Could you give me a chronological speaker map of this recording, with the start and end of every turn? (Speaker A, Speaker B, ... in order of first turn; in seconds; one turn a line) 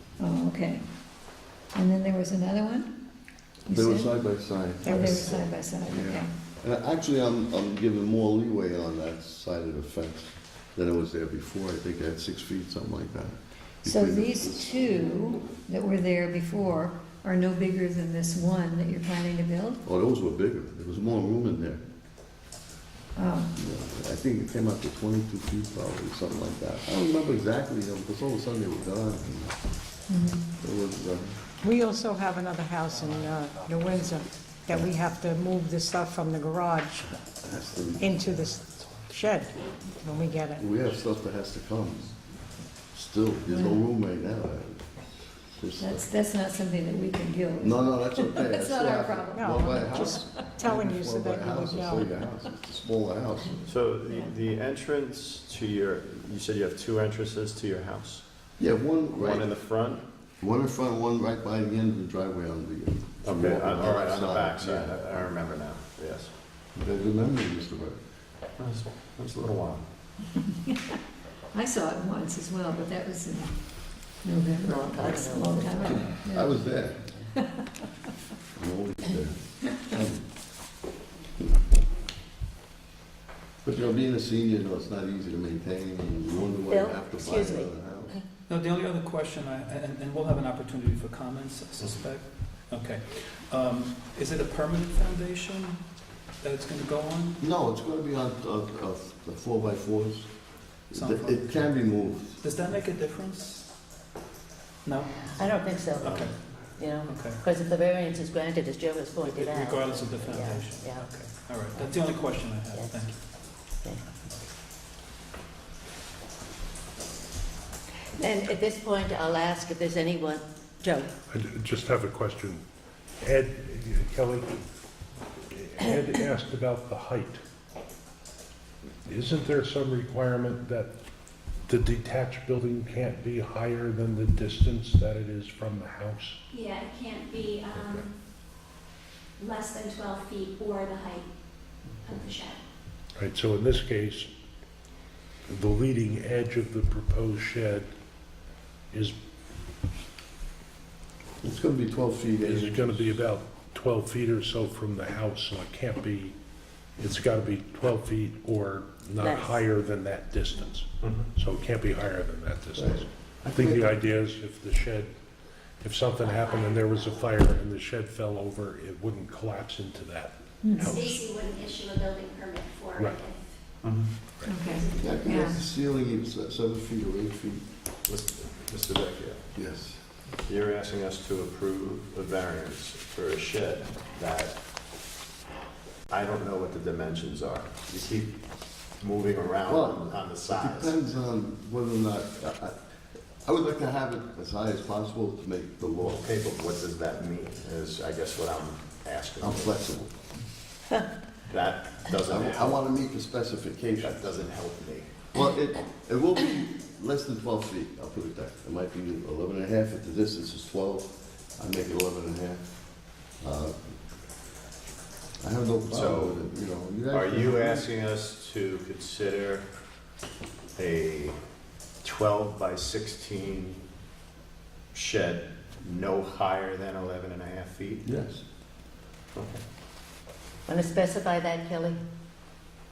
Speaker A: 0.2-0.8
Speaker A: 1.7-2.9
Speaker A: 3.7-4.2
Speaker B: 3.7-15.1
Speaker C: 4.8-5.4
Speaker A: 4.8-6.3
Speaker A: 13.8-19.8
Speaker B: 19.8-21.8
Speaker A: 23.1-23.5
Speaker B: 23.6-29.6
Speaker A: 30.1-30.5
Speaker B: 30.6-31.3
Speaker C: 31.6-37.1
Speaker B: 37.4-38.3
Speaker C: 38.0-40.7
Speaker B: 40.6-42.1
Speaker B: 42.9-44.9
Speaker A: 43.5-43.9
Speaker B: 45.5-46.0
Speaker A: 45.8-50.5
Speaker B: 47.6-53.6
Speaker C: 49.3-52.1
Speaker D: 53.6-58.2
Speaker B: 58.6-59.5
Speaker D: 59.1-60.0
Speaker B: 60.4-65.0
Speaker D: 63.2-66.3
Speaker B: 66.7-68.0
Speaker D: 68.6-69.8
Speaker A: 70.7-70.9
Speaker A: 71.5-73.5
Speaker A: 74.2-76.8
Speaker E: 74.6-76.1
Speaker B: 76.3-77.0
Speaker A: 77.3-77.7
Speaker B: 78.5-80.2
Speaker B: 83.6-88.1
Speaker E: 86.7-88.2
Speaker F: 88.5-97.4
Speaker B: 97.4-100.3
Speaker B: 100.9-102.4
Speaker F: 100.9-103.7
Speaker F: 104.8-106.5
Speaker E: 105.2-111.1
Speaker D: 106.0-106.2
Speaker F: 107.1-107.4
Speaker F: 109.2-113.2
Speaker E: 112.7-112.9
Speaker E: 118.2-121.1
Speaker G: 121.3-122.6
Speaker G: 123.2-124.5
Speaker G: 125.5-127.4
Speaker G: 129.1-130.9
Speaker G: 131.7-136.4
Speaker H: 136.5-138.1
Speaker G: 137.7-138.0
Speaker H: 139.4-141.3
Speaker H: 142.0-142.6
Speaker G: 143.2-144.3
Speaker G: 145.5-147.9
Speaker B: 151.4-153.1
Speaker G: 152.4-156.3
Speaker G: 157.0-165.1
Speaker E: 159.2-159.6
Speaker B: 162.8-164.0
Speaker G: 165.8-171.2
Speaker H: 166.2-167.3
Speaker A: 170.6-171.0
Speaker H: 170.7-173.6
Speaker A: 174.4-175.6
Speaker H: 174.6-175.5
Speaker B: 175.0-177.6
Speaker D: 178.1-179.4
Speaker B: 179.5-180.0
Speaker D: 180.4-184.6
Speaker D: 186.1-188.3
Speaker D: 189.0-191.0
Speaker B: 189.6-192.7
Speaker B: 193.4-196.2
Speaker D: 196.0-199.8
Speaker B: 199.4-200.1
Speaker D: 201.5-202.8
Speaker B: 202.3-204.2
Speaker D: 204.0-205.1
Speaker B: 205.3-212.7
Speaker B: 213.4-213.8
Speaker B: 215.4-217.9
Speaker D: 215.9-216.5
Speaker D: 217.1-219.7
Speaker D: 220.8-221.4
Speaker D: 222.0-223.8
Speaker D: 224.9-228.0
Speaker B: 228.0-228.4
Speaker D: 229.3-229.6
Speaker E: 230.7-232.0